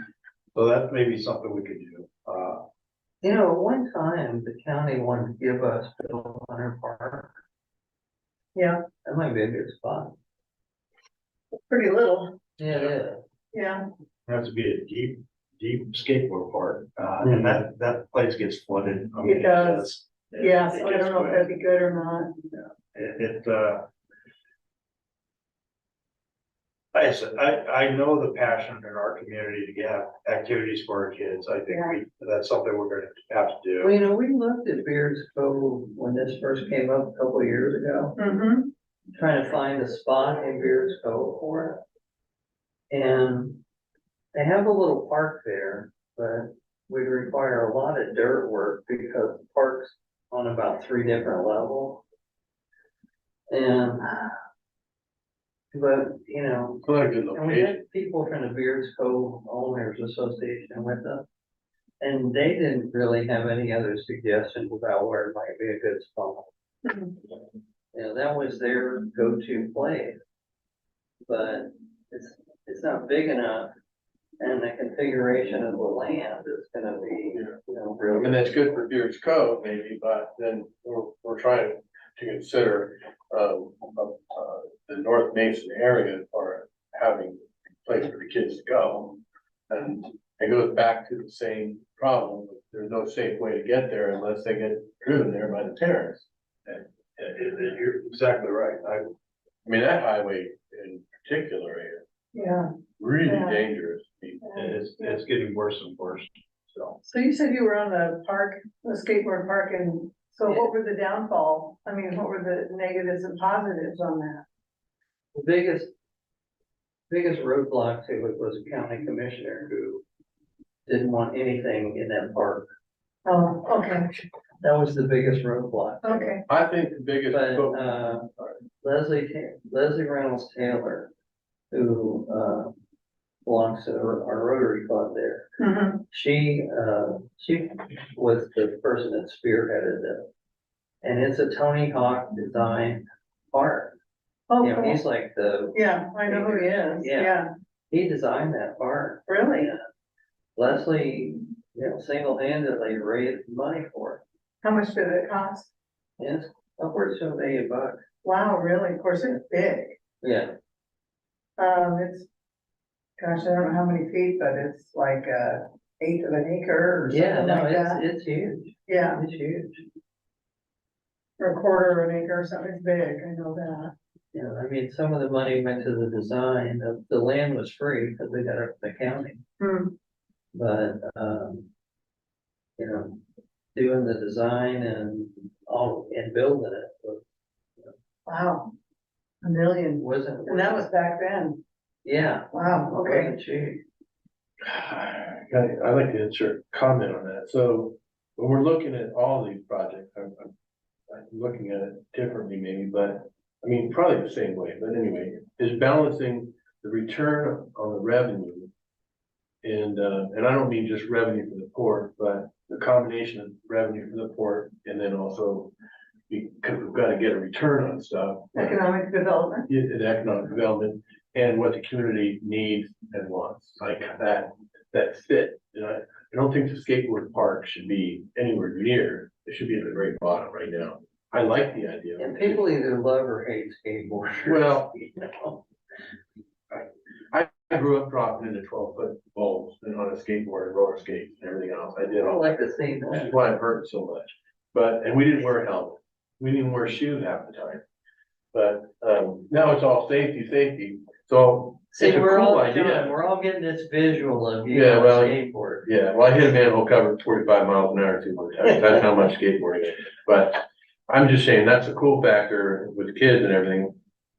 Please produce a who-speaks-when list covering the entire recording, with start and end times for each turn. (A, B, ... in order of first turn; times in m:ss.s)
0:00.5-0:02.6 A
0:03.2-0:07.4 B
0:08.5-0:08.8 C
0:09.0-0:10.1 B
0:11.7-0:12.4 C
0:12.6-0:13.2 B
0:13.5-0:13.8 C
0:14.2-0:21.5 A
0:17.2-0:17.6 D
0:19.2-0:19.9 C
0:20.4-0:22.3 C
0:22.9-0:23.9 A
0:26.9-0:33.9 A
0:31.7-0:32.0 C
0:33.8-0:38.1 B
0:38.2-0:38.7 C
0:39.2-0:41.8 B
0:42.9-0:43.6 B
0:44.3-0:52.0 B
0:53.5-0:54.3 B
0:55.7-1:01.2 B
0:56.8-0:57.8 D
1:02.0-1:06.5 B
1:07.9-1:10.2 B
1:11.3-1:13.7 B
1:14.4-1:18.5 B
1:18.1-1:36.3 D
1:36.7-1:39.1 A
1:39.6-1:42.0 D
1:42.3-1:42.7 C
1:43.0-1:44.8 D
1:43.2-1:43.6 C
1:44.5-1:47.0 A
1:47.0-1:54.4 C
1:55.3-1:55.9 B
1:57.1-2:00.0 B
2:00.9-2:02.7 B
2:03.2-2:04.1 C
2:04.6-2:06.4 B
2:06.0-2:06.4 C
2:06.5-2:08.5 D
2:07.3-2:08.3 B
2:08.8-2:11.1 B
2:11.7-2:12.7 B
2:13.4-2:15.5 B
2:15.6-2:16.0 C
2:16.1-2:20.3 B
2:21.0-2:23.9 B
2:24.5-2:25.0 C
2:24.6-2:29.8 B
2:25.7-2:27.5 C
2:29.3-2:29.7 C
2:30.6-2:34.2 B
2:34.6-2:35.7 C
2:36.2-2:38.0 B
2:38.2-2:40.0 C
2:40.2-2:40.5 B
2:41.6-2:42.3 C
2:43.2-2:48.0 C
2:47.1-2:49.8 B
2:48.9-2:49.2 C
2:51.4-2:53.9 C
2:54.3-2:59.4 B
2:59.6-2:59.9 C
3:00.5-3:01.6 B
3:02.8-3:03.2 B
3:03.7-3:07.2 B
3:08.3-3:08.7 C
3:09.4-3:11.6 C
3:10.0-3:10.8 B
3:12.0-3:13.8 B
3:12.5-3:13.3 C
3:14.6-3:20.5 D
3:21.1-3:28.7 D
3:29.6-3:35.7 D
3:36.3-3:38.8 D
3:38.5-3:39.7 C
3:39.7-3:52.6 D
3:52.2-3:55.6 B
3:54.4-3:54.9 D
3:56.7-4:02.5 D
4:02.2-4:03.3 B
4:03.0-4:07.8 D
4:08.5-4:13.1 D
4:11.9-4:15.8 B
4:14.7-4:23.9 D